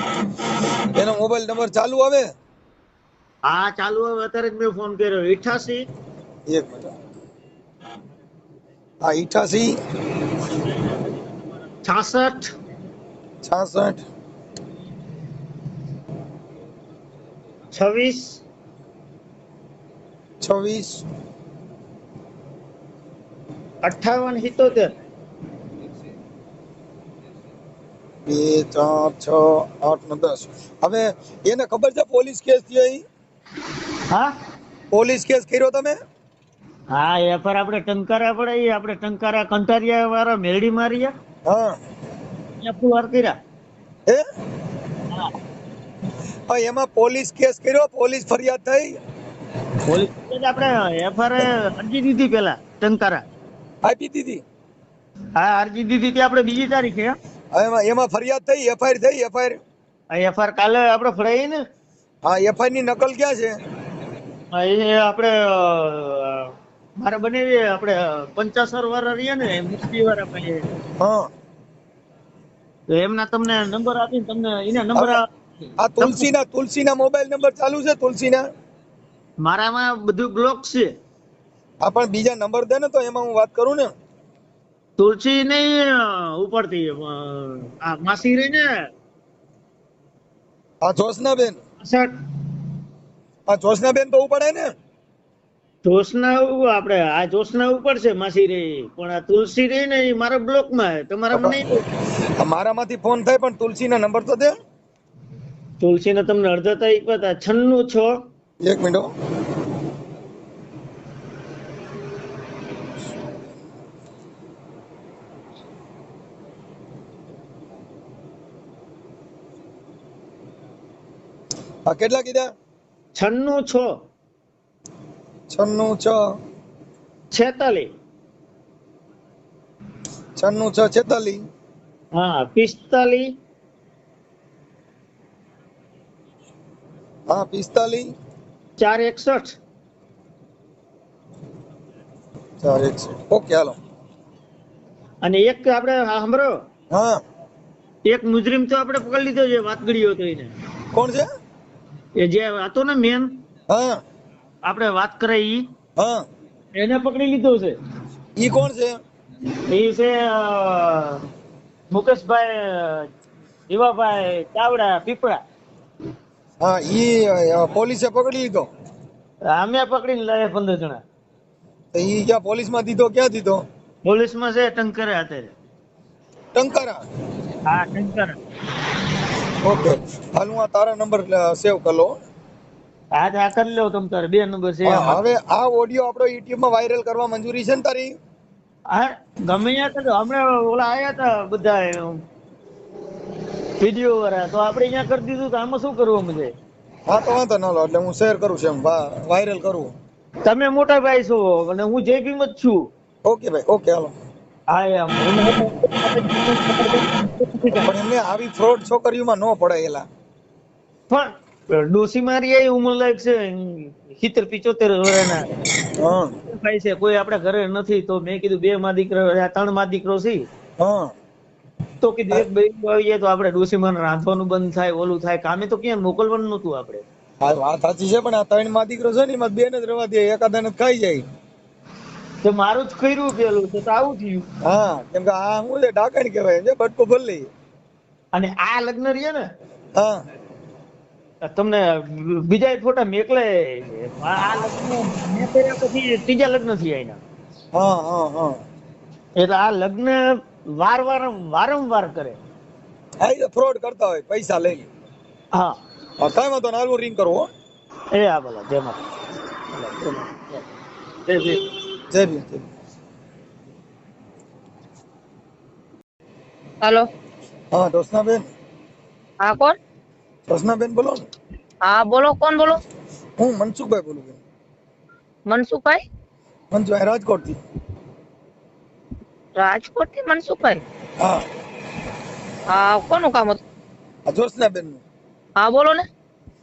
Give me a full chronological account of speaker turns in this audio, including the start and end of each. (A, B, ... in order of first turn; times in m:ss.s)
0:00.9-0:02.3 A
0:03.5-0:05.9 B
0:06.5-0:06.9 A
0:09.0-0:09.8 A
0:11.8-0:12.5 B
0:13.4-0:14.0 A
0:17.7-0:18.4 B
0:20.4-0:21.0 A
0:23.8-0:24.9 B
0:28.3-0:33.0 A
0:34.9-0:36.0 A
0:36.9-0:41.1 B
0:41.4-0:41.8 A
0:42.6-0:43.4 B
0:46.5-0:49.0 A
0:49.8-0:53.2 B
0:53.8-0:54.4 A
0:55.4-0:57.2 B
0:57.5-0:59.6 A
1:00.1-1:01.6 B
1:02.2-1:03.6 A
1:04.5-1:10.8 B
1:11.0-1:11.3 A
1:12.9-1:15.2 B
1:14.9-1:15.2 A
1:15.8-1:18.4 A
1:16.0-1:16.3 B
1:19.4-1:20.9 B
1:21.8-1:23.9 A
1:25.0-1:28.8 B
1:30.8-1:31.6 A
1:31.8-1:32.1 B
1:33.5-1:34.7 A
1:35.8-1:41.8 B
1:41.3-1:41.6 A
1:42.2-1:44.6 A
1:45.8-1:48.2 B
1:48.6-1:49.1 A
2:01.9-2:02.5 A
2:03.1-2:04.0 B
2:05.5-2:06.2 A
2:07.3-2:07.9 B
2:10.4-2:11.4 A
2:12.2-2:13.3 B
2:17.3-2:18.1 A
2:18.8-2:19.6 B
2:22.6-2:23.8 A
2:25.2-2:26.6 B
2:26.9-2:27.2 A
2:28.0-2:30.5 B
2:30.9-2:31.3 A
2:32.2-2:33.4 B
2:33.7-2:34.0 A
2:34.6-2:35.7 B
2:36.0-2:36.2 A
2:36.8-2:37.8 B
2:38.4-2:39.0 A
2:39.5-2:41.2 B
2:41.9-2:43.1 B
2:43.7-2:45.4 B
2:46.6-2:48.7 A
2:49.5-2:51.0 B
2:51.9-2:53.6 A
2:54.0-2:55.5 B
2:56.5-2:57.0 A
2:57.7-2:58.4 B
2:59.6-3:02.2 A
3:03.1-3:05.2 B
3:04.8-3:08.1 A
3:08.9-3:12.2 B
3:13.8-3:16.5 B
3:17.1-3:19.9 A
3:20.4-3:22.9 B
3:23.2-3:24.1 A
3:24.7-3:27.9 B
3:27.7-3:30.0 A
3:31.1-3:35.6 B
3:35.9-3:36.4 A
3:36.5-3:40.4 B
3:40.8-3:41.1 A
3:42.0-3:47.0 B
3:47.4-3:51.2 A
3:52.4-3:54.5 B
3:54.6-3:57.5 A
3:58.3-3:59.5 B
3:59.9-4:00.2 A
4:01.4-4:07.2 B
4:07.7-4:08.6 A
4:09.4-4:12.4 B
4:13.2-4:14.9 A
4:16.2-4:17.5 A
4:18.1-4:19.0 B
4:19.7-4:20.6 B
4:21.2-4:21.6 B
4:22.1-4:22.7 A
4:26.8-4:27.1 C
4:27.7-4:28.5 A
4:29.4-4:29.8 C
4:30.5-4:31.2 A
4:31.8-4:32.8 C
4:33.4-4:34.4 A
4:35.5-4:36.0 C
4:36.7-4:37.6 A
4:39.6-4:40.8 C
4:41.2-4:41.4 A
4:42.7-4:43.6 C
4:44.3-4:45.0 A
4:45.6-4:46.0 C